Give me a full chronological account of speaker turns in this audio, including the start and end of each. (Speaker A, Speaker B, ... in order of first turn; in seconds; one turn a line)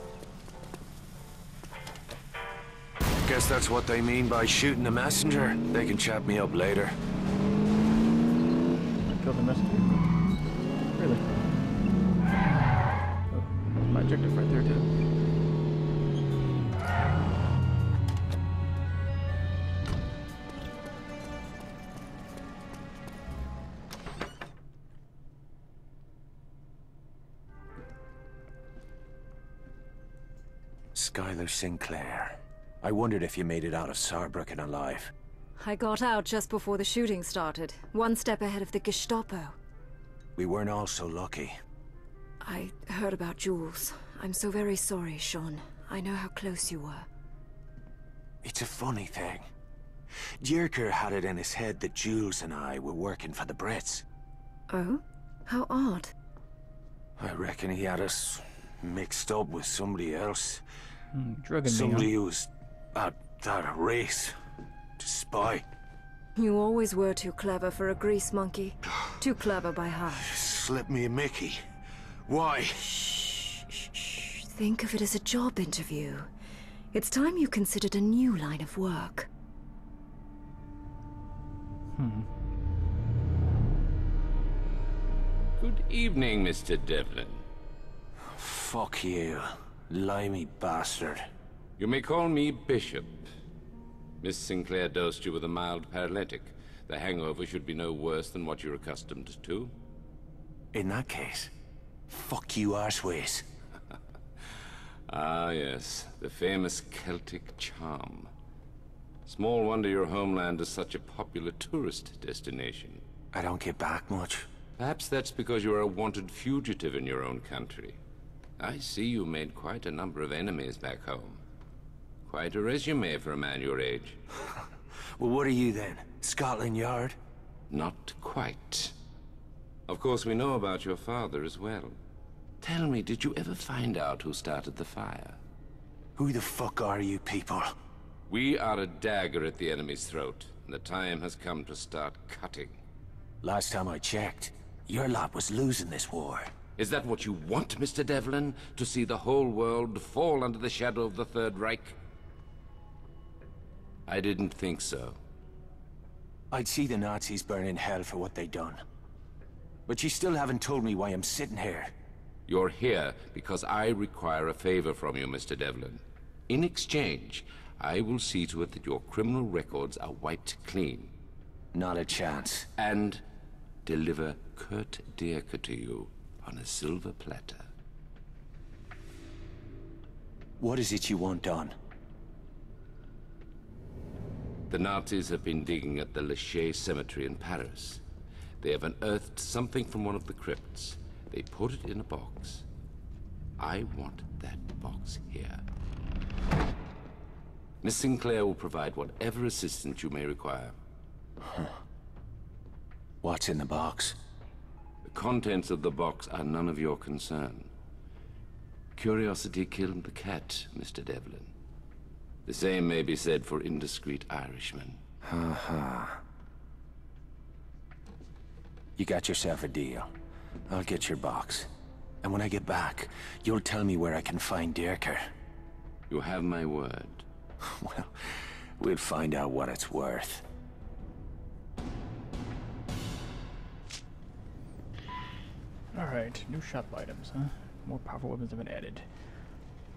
Speaker A: 3.2-7.0
Speaker B: 9.0-10.1
Speaker B: 10.9-11.4
Speaker B: 13.2-15.0
Speaker A: 30.9-35.1
Speaker C: 35.6-39.6
Speaker A: 40.4-41.5
Speaker C: 42.4-47.1
Speaker A: 48.4-49.5
Speaker A: 50.4-54.0
Speaker C: 54.7-56.1
Speaker A: 57.2-60.6
Speaker B: 61.1-62.1
Speaker A: 61.7-64.4
Speaker A: 65.0-65.7
Speaker C: 66.4-70.3
Speaker A: 70.2-71.6
Speaker A: 72.3-72.9
Speaker C: 72.8-76.3
Speaker C: 76.9-79.3
Speaker B: 82.0-82.3
Speaker D: 85.6-87.5
Speaker A: 88.3-91.2
Speaker D: 91.8-93.3
Speaker D: 94.2-99.7
Speaker A: 100.7-101.5
Speaker A: 102.1-103.5
Speaker D: 105.1-108.3
Speaker D: 109.3-113.0
Speaker A: 113.3-114.5
Speaker D: 114.8-118.0
Speaker D: 118.6-121.4
Speaker D: 122.3-124.2
Speaker A: 125.2-127.2
Speaker D: 127.7-128.9
Speaker D: 129.9-132.0
Speaker D: 132.6-135.4
Speaker A: 136.2-137.7
Speaker D: 138.3-142.8
Speaker A: 143.4-146.5
Speaker D: 146.8-152.0
Speaker D: 154.1-155.2
Speaker A: 156.5-158.8
Speaker A: 159.9-161.9
Speaker D: 162.5-171.1
Speaker A: 171.7-172.7
Speaker D: 172.8-173.2
Speaker D: 173.8-177.7
Speaker A: 180.6-181.8
Speaker D: 184.7-188.0
Speaker D: 188.6-192.7
Speaker D: 193.6-195.6
Speaker D: 197.8-200.8
Speaker A: 203.2-204.2
Speaker D: 205.1-207.7
Speaker D: 209.0-211.5
Speaker D: 212.5-215.0
Speaker A: 215.2-216.2
Speaker A: 219.0-220.1
Speaker A: 220.7-221.7
Speaker A: 222.2-225.3
Speaker D: 226.1-227.2
Speaker A: 227.6-228.1
Speaker A: 228.8-230.4
Speaker B: 235.9-239.3